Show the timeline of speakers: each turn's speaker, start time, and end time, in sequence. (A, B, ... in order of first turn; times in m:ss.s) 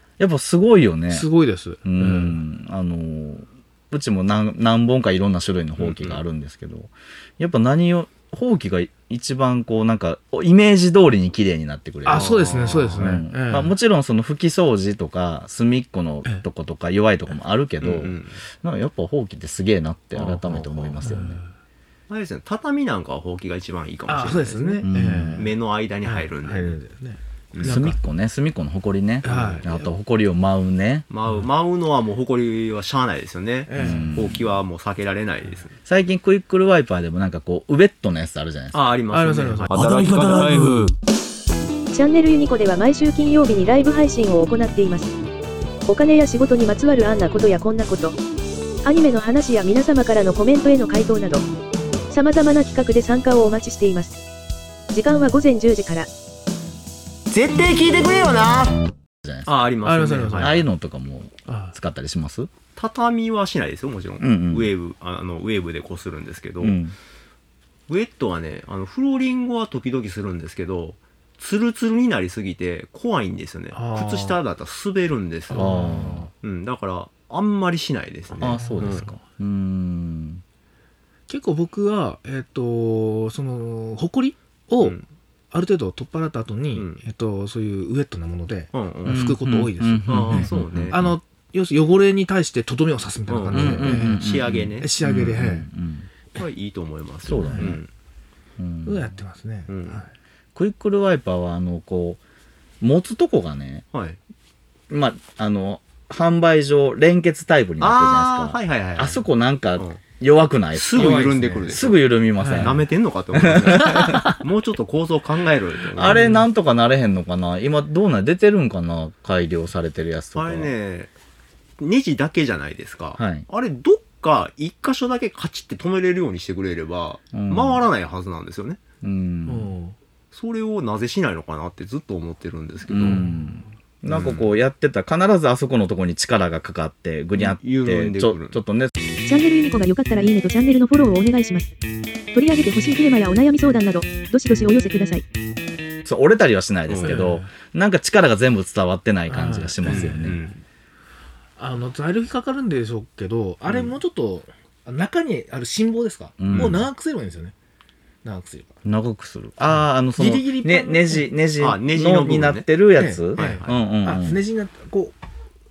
0:00.2-0:01.3 A
0:01.1-0:02.4 B
0:01.8-0:21.4 A
0:05.8-0:06.2 C
0:12.0-0:13.8 B
0:12.1-0:13.2 C
0:17.8-0:18.4 C
0:20.1-0:20.4 C
0:20.4-0:21.5 B
0:22.1-0:26.8 C
0:24.1-0:28.0 B
0:24.8-0:25.5 A
0:27.5-0:27.8 C
0:27.6-0:31.1 A
0:29.2-0:29.9 B
0:29.3-0:29.6 C
0:31.1-0:35.8 C
0:33.7-0:34.2 B
0:33.8-0:34.6 A
0:35.8-0:38.8 A
0:38.7-0:40.6 C
0:39.1-0:39.8 B
0:39.7-0:41.0 D
0:41.9-0:45.2 E
0:45.9-0:48.2 E
0:48.8-0:51.5 E
0:52.1-0:54.2 E
0:54.9-0:56.1 E
0:57.3-0:58.8 D
0:59.2-0:59.5 A
0:59.4-1:00.6 C
0:59.8-1:00.6 B
1:00.4-1:02.5 A
1:01.5-1:01.8 B
1:02.8-1:06.8 C
1:04.2-1:04.7 A
1:06.6-1:07.0 A
1:07.9-1:15.8 C
1:13.7-1:14.4 B
1:15.5-1:16.3 B
1:15.6-1:16.3 A
1:16.4-1:19.1 C
1:18.4-1:20.4 A
1:18.4-1:19.2 B
1:21.3-1:25.0 B
1:24.8-1:25.1 C
1:25.5-1:34.2 B
1:26.7-1:27.0 C
1:28.7-1:29.2 C
1:29.1-1:31.1 A
1:30.1-1:31.0 C
1:33.3-1:34.9 C
1:33.5-1:36.1 A
1:34.8-1:35.7 B
1:36.4-1:37.9 C
1:37.2-1:37.8 A
1:37.4-1:37.7 B
1:38.6-1:39.2 A
1:38.8-1:40.1 B
1:39.7-1:40.0 C
1:40.6-1:42.2 A
1:42.8-1:43.9 A
1:43.9-1:44.2 C
1:44.9-1:52.8 A
1:47.8-1:49.2 C
1:50.7-1:56.3 C
1:50.9-1:51.8 B
1:52.4-1:52.8 B
1:53.4-1:54.3 A
1:55.9-2:00.7 A
1:56.0-1:56.5 B
2:00.4-2:01.1 C
2:01.8-2:08.8 C
2:03.2-2:03.5 A
2:07.3-2:07.8 A
2:09.0-2:09.7 A
2:09.5-2:10.0 B
2:10.3-2:13.2 C
2:12.9-2:18.9 A
2:13.0-2:13.7 B
2:14.1-2:14.5 C
2:17.4-2:18.6 C
2:19.2-2:21.7 E
2:22.3-2:25.2 E
2:26.0-2:30.4 A
2:26.9-2:27.3 C
2:27.0-2:27.5 B
2:29.3-2:30.3 B
2:29.8-2:30.6 C
2:31.6-2:37.5 B
2:33.7-2:34.0 C
2:36.4-2:36.8 A
2:36.5-2:36.8 C
2:38.2-2:38.8 B
2:38.8-2:44.4 A
2:39.7-2:41.3 B
2:41.6-2:42.7 C
2:43.0-2:45.2 B
2:43.3-2:43.8 C